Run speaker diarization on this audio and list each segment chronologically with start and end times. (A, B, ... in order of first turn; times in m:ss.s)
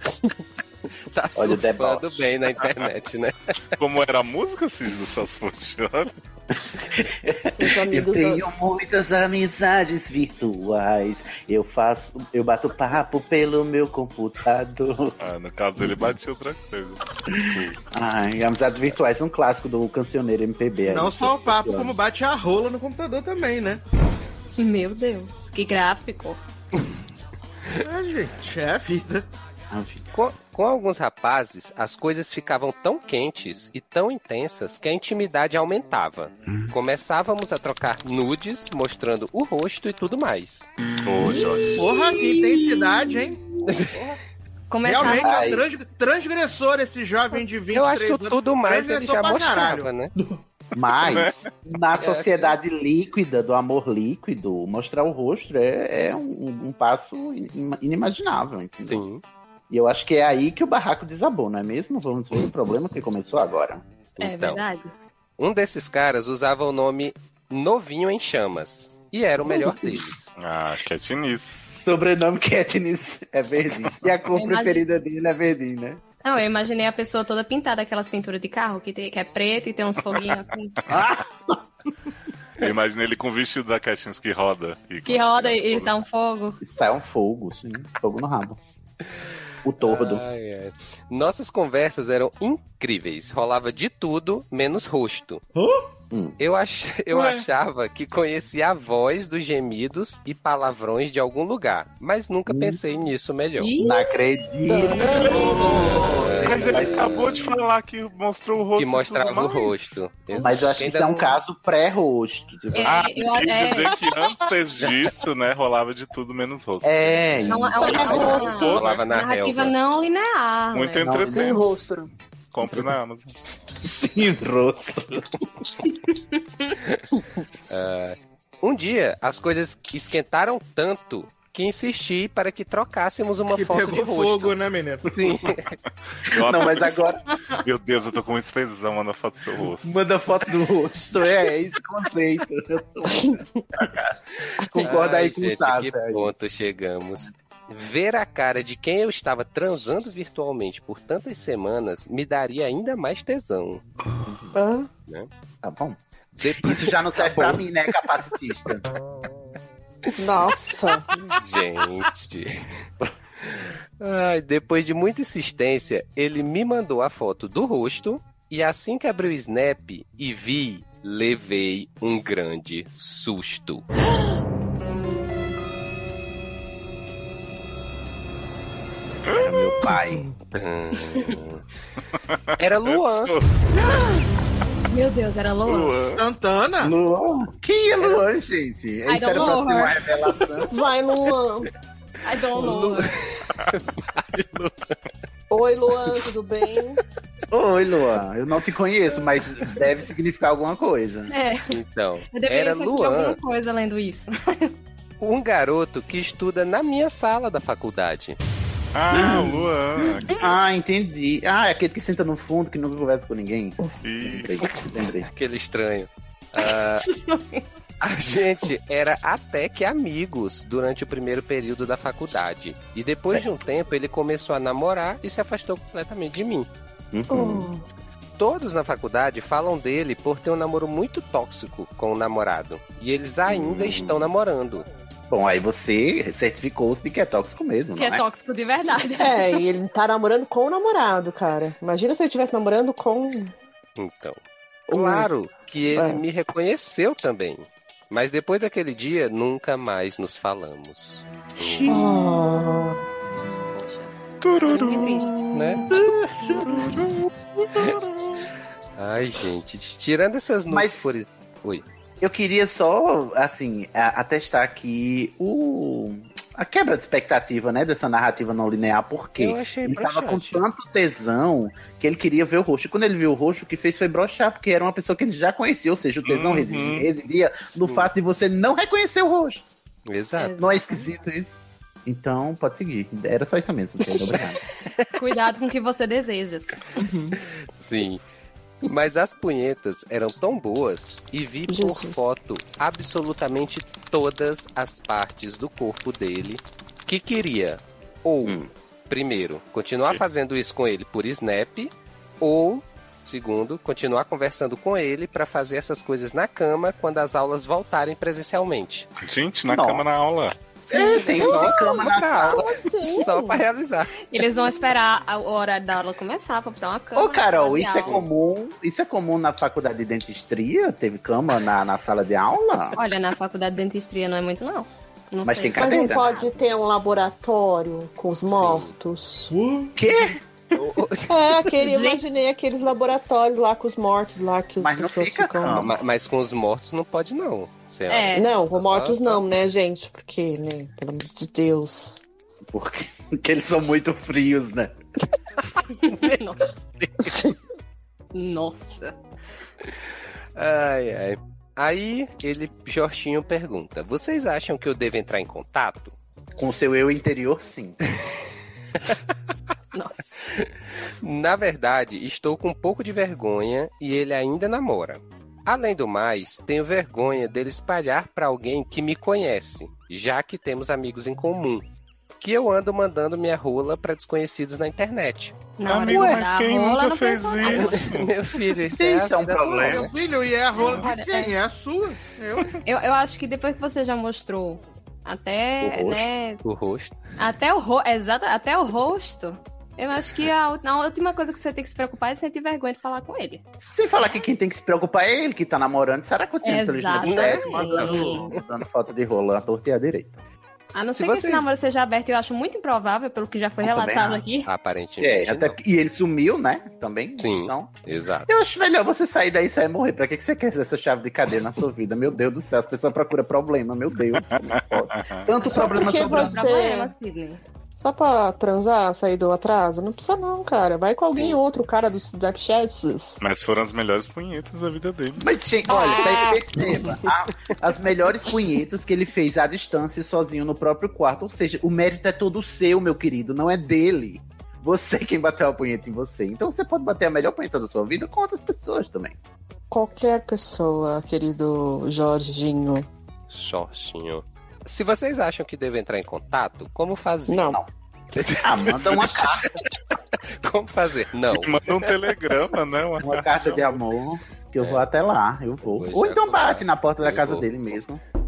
0:01.1-0:03.5 A
0:01.3-0:02.2 B
0:03.8-0:06.1 C
0:06.5-0:15.1 B
0:07.6-0:08.4 D
0:15.2-0:17.0 C
0:17.3-0:22.0 B
0:20.8-0:23.8 E
0:24.6-0:26.4 F
0:27.8-0:29.3 E
0:29.7-0:30.0 B
0:30.1-0:40.7 A
0:41.0-0:41.9 C
0:41.7-0:43.4 E
0:43.6-0:44.0 A
0:44.7-0:45.4 F
0:44.8-0:49.9 E
0:45.0-0:45.6 B
0:47.7-0:50.1 A
0:50.7-0:59.0 B
0:51.0-0:51.5 C
0:52.0-0:52.6 A
0:58.8-0:59.2 A
0:59.7-1:03.8 B
1:04.2-1:04.6 A
1:04.2-1:04.9 F
1:05.4-1:10.3 A
1:09.4-1:10.0 B
1:10.4-1:11.7 C
1:11.7-1:16.0 B
1:14.3-1:14.8 F
1:16.2-1:20.8 F
1:20.9-1:21.6 B
1:22.6-1:25.9 C
1:25.0-1:26.6 F
1:26.6-1:28.6 B
1:29.6-1:30.2 B
1:29.8-1:35.4 A
1:36.1-1:36.4 B
1:36.4-1:43.7 A
1:42.5-1:42.8 B
1:43.6-1:44.1 F
1:43.8-1:47.4 B
1:44.7-1:45.5 D
1:45.1-1:45.8 C
1:46.0-1:47.3 A
1:46.4-1:50.0 C
1:48.8-1:51.4 A
1:50.3-1:53.8 B
1:52.7-1:53.9 F
1:52.8-1:59.1 C
1:56.8-1:58.5 B
1:57.5-2:01.2 F
1:57.9-1:59.7 A
1:58.1-1:58.4 D
2:00.7-2:01.7 C
2:01.0-2:01.6 B
2:01.3-2:02.1 D
2:02.5-2:03.3 C
2:03.8-2:05.7 B
2:07.7-2:14.5 A
2:13.5-2:15.1 E
2:15.1-2:15.8 A
2:16.2-2:16.9 C
2:16.3-2:17.2 B
2:17.6-2:19.9 C
2:19.8-2:26.3 B
2:24.8-2:33.8 A
2:34.2-2:34.6 B
2:34.5-2:34.9 D
2:35.6-2:36.0 B
2:36.4-2:37.6 A
2:36.5-2:38.8 B
2:40.2-2:41.1 D
2:41.2-2:42.7 A
2:43.4-2:53.8 A
2:59.3-2:59.8 C
2:59.3-3:00.3 B
3:00.5-3:01.6 A
3:02.3-3:03.5 C
3:02.6-3:03.3 A
3:04.9-3:06.0 F
3:05.6-3:06.2 C
3:06.0-3:06.9 E
3:06.8-3:10.7 B
3:09.0-3:10.0 F
3:10.7-3:11.7 D
3:12.2-3:13.2 F
3:12.6-3:14.7 A
3:15.5-3:17.0 D
3:17.5-3:21.3 B
3:21.3-3:21.7 F
3:21.7-3:23.4 A
3:22.3-3:24.7 F
3:25.2-3:28.4 A
3:28.9-3:30.5 C
3:29.1-3:29.7 B
3:30.2-3:35.3 B
3:34.0-3:34.7 C
3:35.3-3:37.1 A
3:37.0-3:37.6 F
3:38.0-3:46.7 A
3:47.1-3:47.7 B
3:47.3-3:47.8 D
3:48.4-3:54.8 A
3:53.5-3:54.3 B
3:55.3-3:58.2 B
3:58.0-3:59.6 F
3:59.2-4:03.5 D
4:04.0-4:11.9 A
4:04.9-4:05.3 D
4:05.9-4:06.2 D
4:11.6-4:12.5 B
4:11.9-4:13.0 D
4:13.7-4:14.1 F
4:14.4-4:15.8 C
4:14.6-4:15.5 F
4:15.5-4:15.9 A
4:15.9-4:17.1 B
4:16.7-4:17.1 C
4:19.0-4:21.8 A
4:20.7-4:21.1 B
4:22.2-4:39.6 B
4:29.4-4:30.6 A
4:36.2-4:37.1 C
4:37.8-4:38.1 A
4:40.1-4:40.6 A
4:40.4-4:41.0 F
4:40.6-4:44.6 B
4:45.1-4:46.8 F
4:47.0-4:47.4 B
4:47.7-4:48.2 A
4:48.8-5:09.1 A
4:51.7-4:52.3 D
4:58.4-4:58.7 B
5:09.2-5:10.5 C
5:09.7-5:10.0 B
5:10.9-5:12.8 B
5:10.9-5:14.1 A
5:10.9-5:13.6 D
5:14.3-5:18.2 F
5:17.1-5:23.0 B
5:23.0-5:26.5 F
5:25.4-5:26.3 B
5:25.8-5:29.6 D
5:28.5-5:28.9 A
5:29.9-5:30.4 B
5:30.7-5:31.4 A
5:31.3-5:35.9 D
5:31.8-5:32.2 F
5:34.8-5:36.0 B
5:35.7-5:39.4 A
5:38.1-5:38.5 F
5:38.3-5:42.2 D
5:42.7-5:44.9 B
5:46.0-5:46.8 F
5:47.2-5:47.6 D
5:48.3-5:49.1 F
5:50.6-5:56.1 A
5:56.6-5:58.0 B
5:59.9-6:00.4 F
6:01.2-6:11.8 A
6:12.4-6:15.6 A
6:15.8-6:18.0 F
6:15.8-6:18.3 C
6:16.1-6:16.4 B
6:17.7-6:20.1 A
6:18.9-6:20.1 B
6:19.8-6:22.8 E
6:20.8-6:21.6 F
6:22.8-6:26.6 F
6:25.8-6:26.3 B
6:26.6-6:27.1 A
6:27.4-6:33.6 F
6:33.8-6:40.4 B
6:36.6-6:38.4 F
6:37.2-6:38.6 A
6:40.9-6:44.7 F
6:41.1-6:41.7 A
6:43.8-6:44.4 B
6:44.6-6:45.8 A
6:45.2-6:56.7 B
6:47.4-6:48.5 A
6:54.7-6:55.5 C
6:55.6-6:57.1 D
6:55.7-6:57.6 F
6:58.0-7:03.4 D
7:03.4-7:05.4 C
7:05.4-7:19.4 B
7:05.9-7:07.1 D
7:19.9-7:23.1 D
7:23.5-7:27.8 A
7:27.5-7:27.8 D
7:28.4-7:29.5 A
7:28.6-7:29.7 B
7:30.5-7:32.1 A
7:31.5-7:34.0 C
7:33.2-7:38.2 B
7:34.8-7:35.1 A
7:36.0-7:37.7 A